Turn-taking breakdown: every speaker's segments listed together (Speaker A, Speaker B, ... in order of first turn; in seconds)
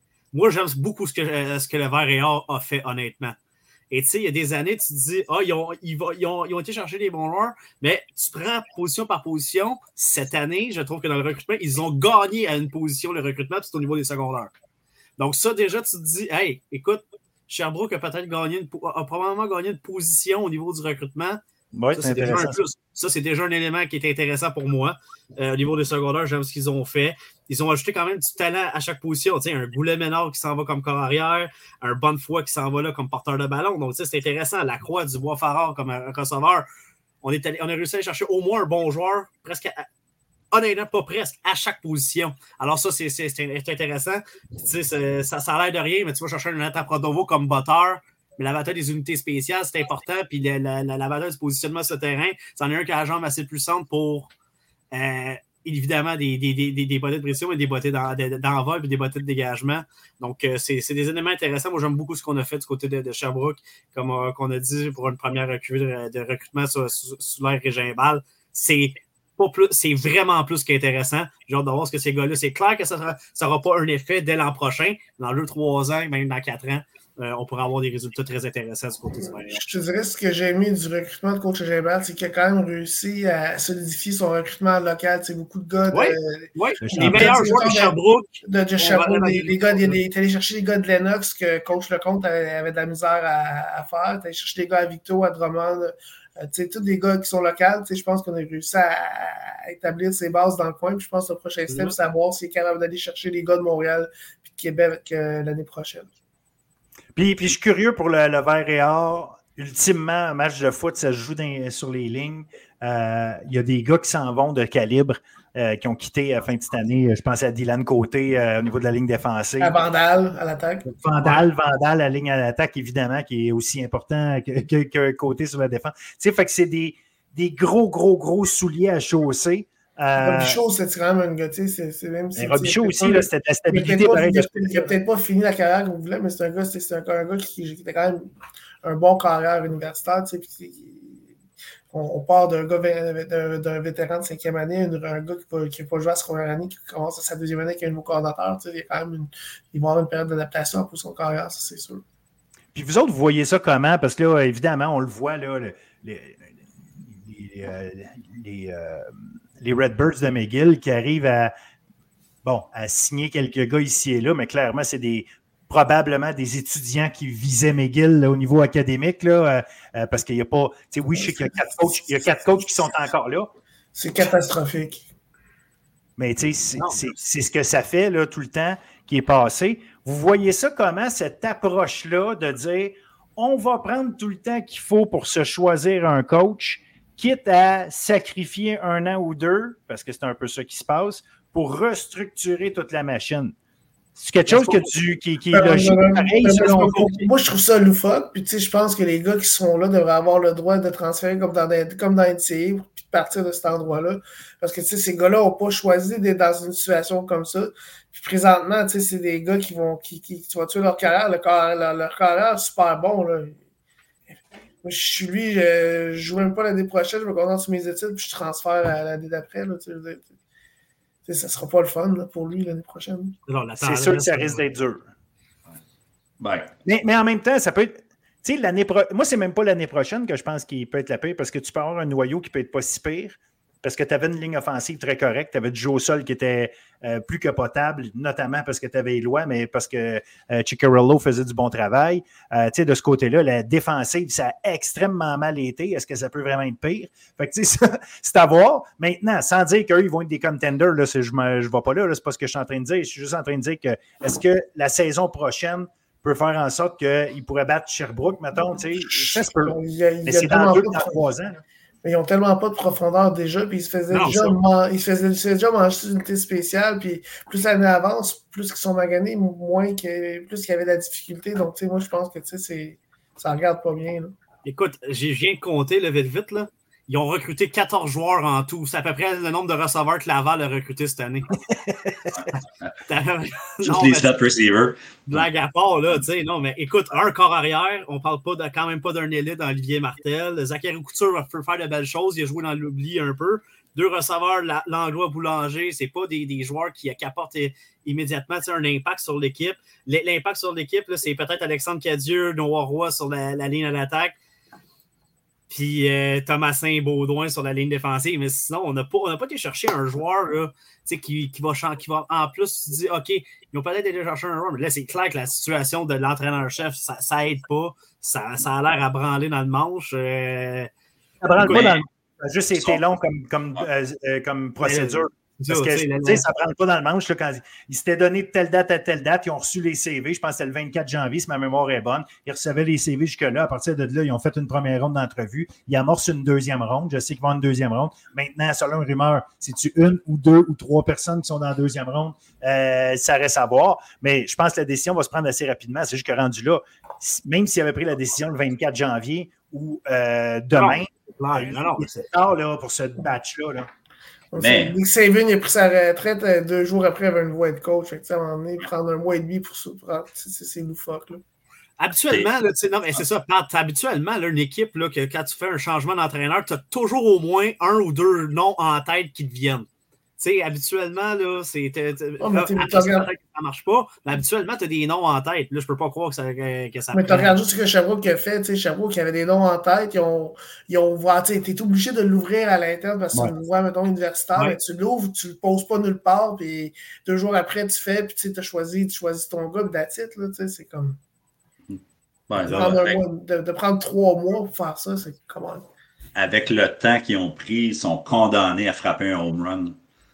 Speaker A: 0.3-3.4, 3.9-14.5, 15.2-21.4, 21.9-36.7, 37.2-39.9, 40.5-54.3, 54.9-79.6, 85.9-90.0, 101.7-101.9, 194.5-194.9, 223.5-224.6, 264.1-264.6, 274.6-281.5, 283.1-284.4, 285.3-304.4, 305.7-320.9, 321.6-321.8, 324.8-326.4, 350.8-352.1, 362.0-369.9, 370.4-377.6
Speaker B: 21.7-22.6, 86.8-87.4, 107.2-119.8, 120.9-130.6, 132.4-135.0, 152.7-161.5, 162.4-173.5, 176.2-193.5, 194.2-197.2, 223.8-225.1, 226.8-261.6, 281.7-282.4, 321.4-353.9
Speaker C: 79.5-106.1, 119.6-121.4, 130.2-138.3, 138.8-141.2, 141.9-152.0, 171.2-171.5, 173.9-175.1, 195.5-213.6, 214.3-220.3, 221.3-223.4, 259.0-261.2, 262.0-274.4, 354.5-361.4, 372.4-373.3, 377.1-391.2, 392.6-395.9
Speaker D: 226.4-226.7, 283.8-285.5, 321.6-322.0, 322.8-323.0, 354.6-355.0, 391.9-393.2, 396.4-400.0